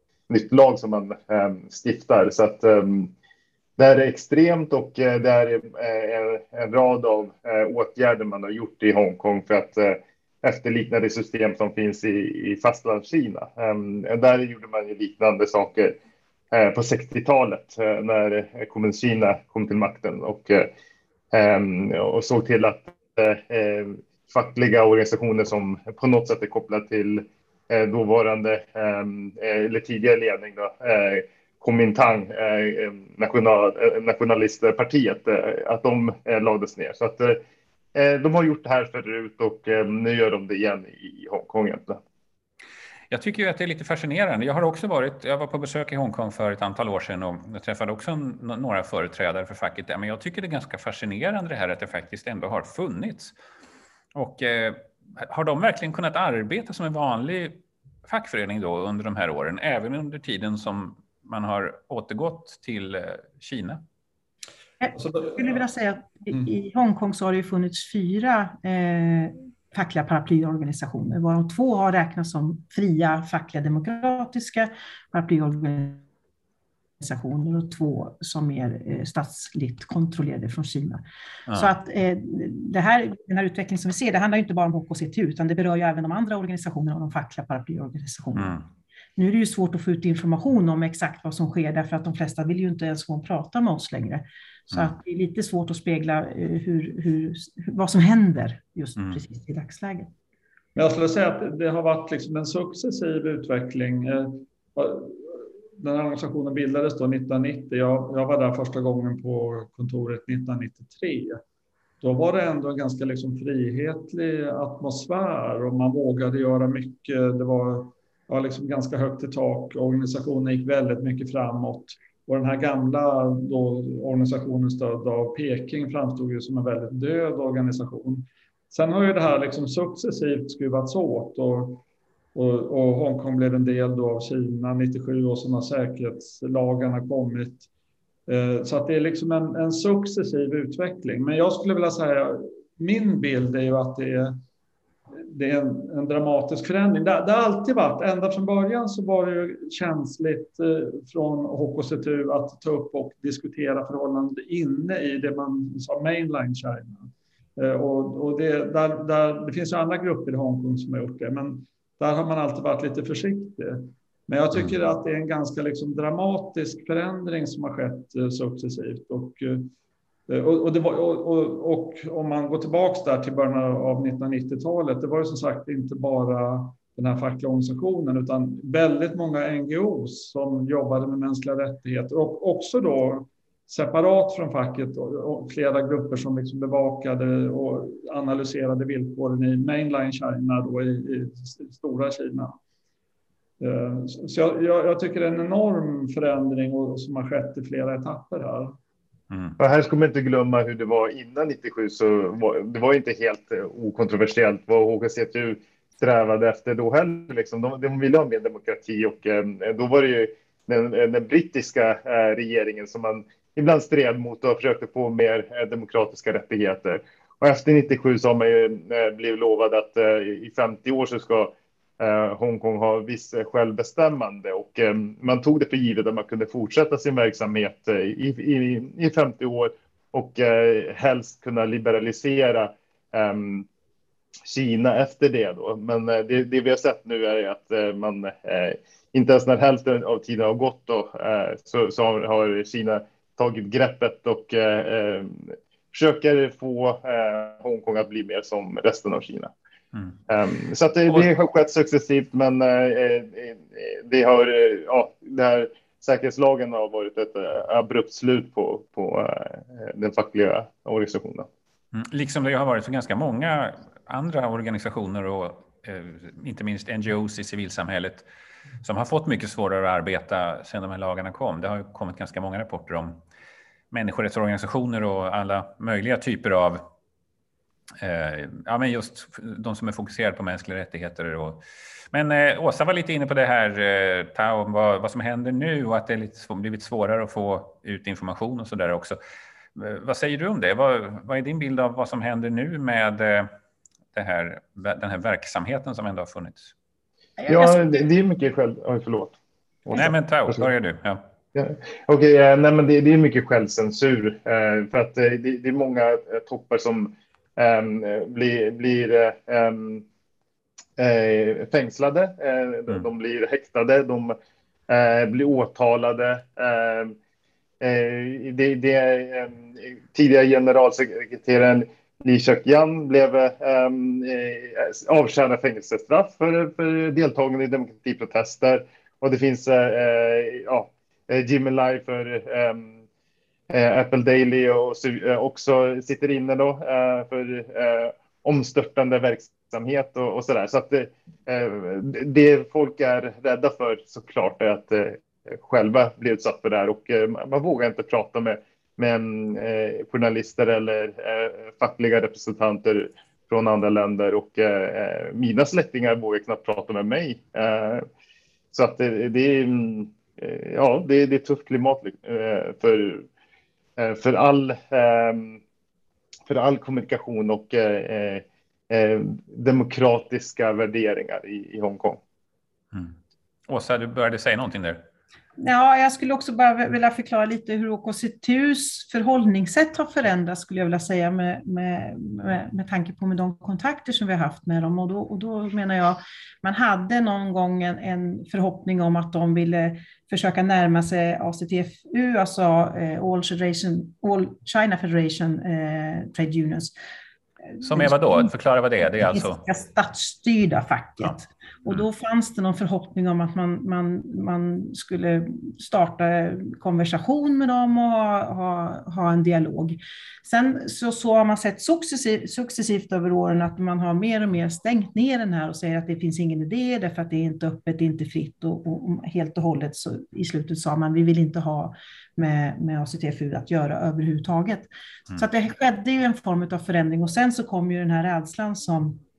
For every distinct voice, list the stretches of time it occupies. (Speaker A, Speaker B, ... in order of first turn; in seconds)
Speaker A: 0.3-3.1, 3.8-15.9, 16.5-20.7, 21.3-37.4, 37.9-42.0, 199.6-233.7, 234.5-249.5, 250.3-261.5, 297.5-300.7, 301.5-310.0, 311.0-314.4, 314.9-317.1, 317.8-333.0, 333.7-358.0, 358.7-363.3, 364.0-365.6, 366.5-372.2
Speaker B: 43.1-53.3, 54.1-63.8, 199.3-199.6, 261.9-268.2, 268.8-273.2, 273.9-276.8, 278.0-289.2, 289.8-293.5, 294.1-296.7, 299.9-301.2, 373.7-375.0, 397.8-399.6
Speaker C: 64.8-76.0, 77.0-81.0, 81.5-88.6, 89.2-100.1, 297.4-298.0, 375.6-396.9, 397.8-398.5, 399.2-429.2
Speaker D: 65.0-65.3, 100.8-111.4, 112.0-131.8, 132.3-137.7, 138.3-144.4, 145.2-169.7, 170.3-192.6, 193.6-198.8